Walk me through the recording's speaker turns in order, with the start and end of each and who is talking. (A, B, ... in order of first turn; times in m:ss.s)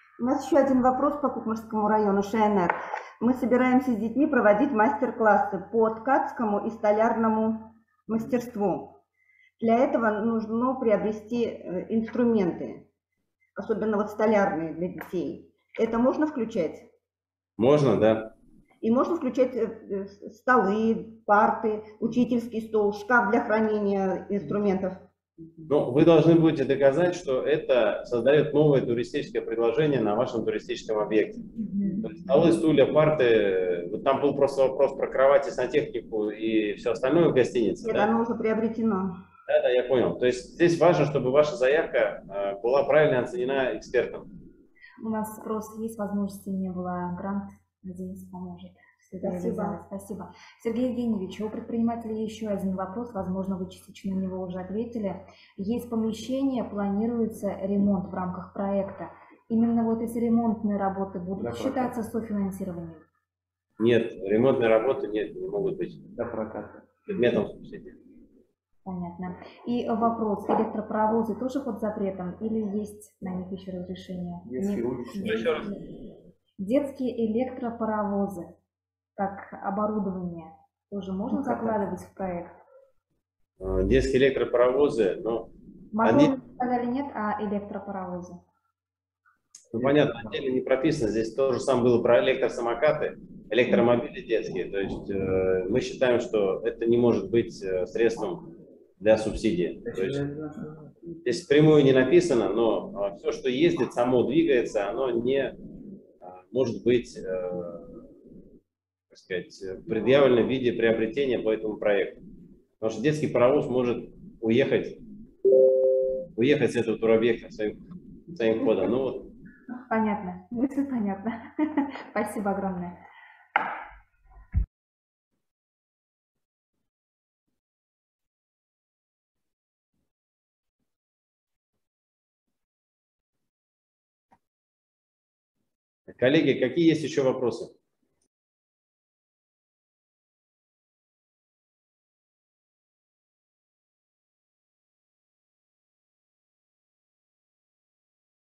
0:00.2-0:09.0 A
0:09.6-0:12.9 A
0:13.6-0:16.9 A
0:17.6-0:18.3 B
0:18.8-0:25.0 A
0:25.7-0:31.4 B
0:32.0-0:38.1 B
0:37.8-0:39.2 A
0:39.5-0:44.3 B
0:45.0-1:03.0 C
0:49.2-0:49.8 A
1:01.4-1:02.0 D
1:03.8-1:06.0 B
1:06.2-1:06.9 D
1:07.1-1:08.0 B
1:08.8-1:15.8 C
1:14.5-1:15.7 D
1:15.2-1:15.7 B
1:16.6-1:18.5 C
1:19.2-1:22.6 C
1:23.6-1:25.5 B
1:25.9-1:28.4 C
1:26.0-1:26.3 B
1:29.7-1:38.4 B
1:29.8-1:30.4 D
1:39.0-1:40.2 B
1:39.8-1:40.9 D
1:41.2-1:45.6 B
1:46.2-1:47.9 B
1:49.1-1:52.2 B
1:52.8-1:55.0 B
1:56.4-1:57.8 B
1:58.3-1:59.3 B
1:59.9-2:03.0 C
2:16.1-2:17.7 B